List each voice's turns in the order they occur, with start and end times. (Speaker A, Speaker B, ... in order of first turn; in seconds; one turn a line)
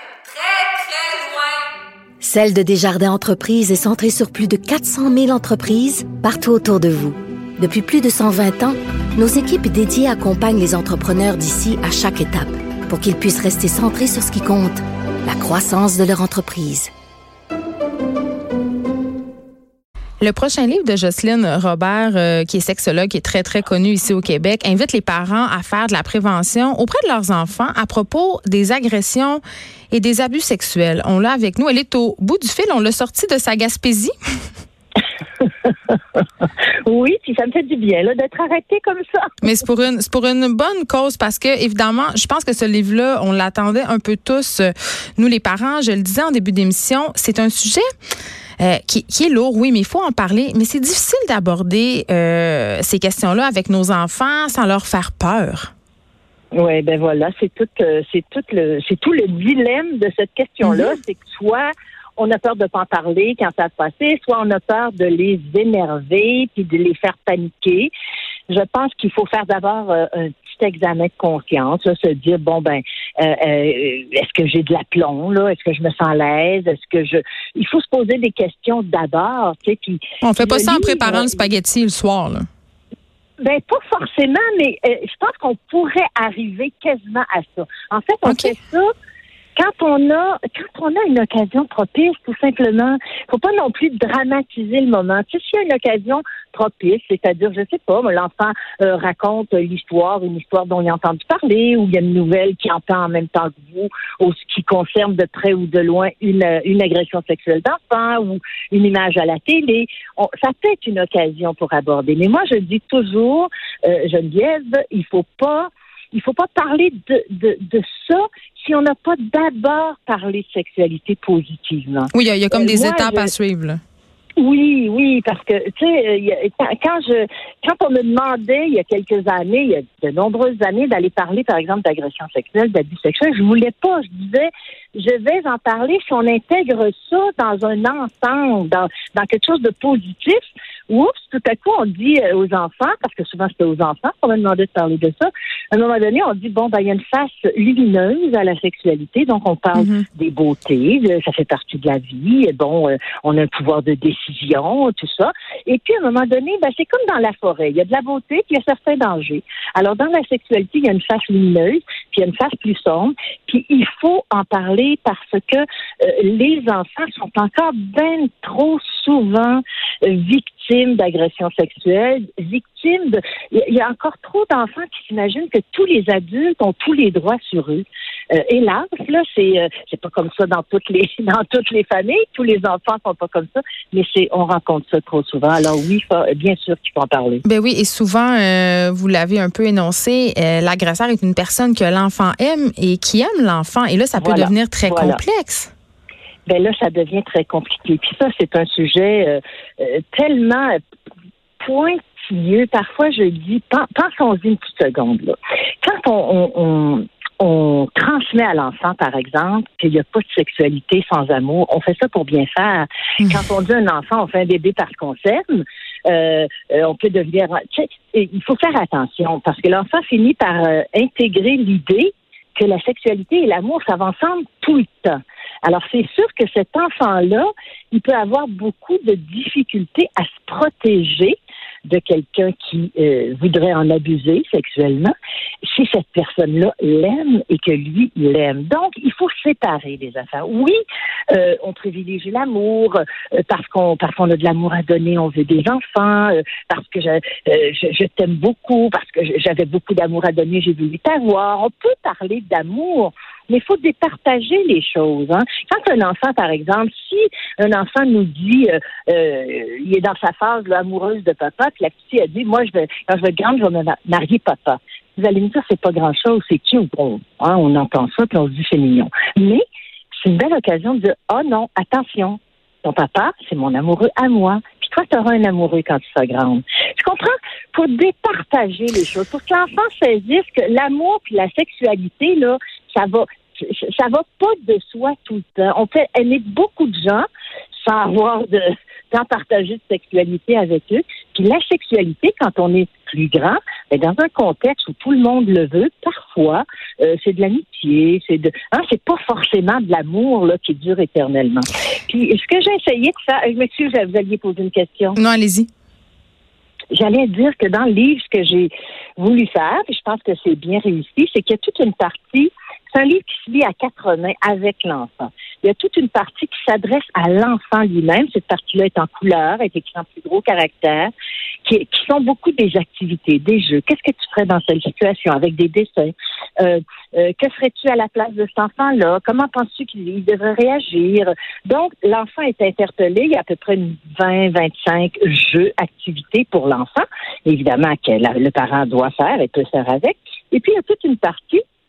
Speaker A: 0.3-1.5
Speaker B: 2.2-16.9
Speaker A: 20.2-34.1
Speaker C: 35.4-36.2
Speaker C: 36.9-39.3
Speaker A: 39.4-47.8
Speaker A: 48.6-55.7
Speaker C: 56.5-67.9
Speaker A: 60.6-60.9
Speaker C: 68.5-81.5
Speaker A: 80.2-82.5
Speaker C: 83.4-88.9
Speaker A: 88.2-88.5
Speaker C: 89.5-123.3
Speaker A: 122.1-123.8
Speaker C: 124.4-187.4
Speaker A: 149.7-150.0
Speaker A: 187.4-195.7
Speaker C: 194.2-195.2
Speaker C: 196.4-200.8
Speaker C: 201.6-240.8
Speaker C: 241.3-269.6
Speaker C: 270.2-287.2
Speaker C: 287.8-305.2
Speaker A: 305.1-305.7
Speaker C: 306.9-321.1
Speaker C: 321.6-341.6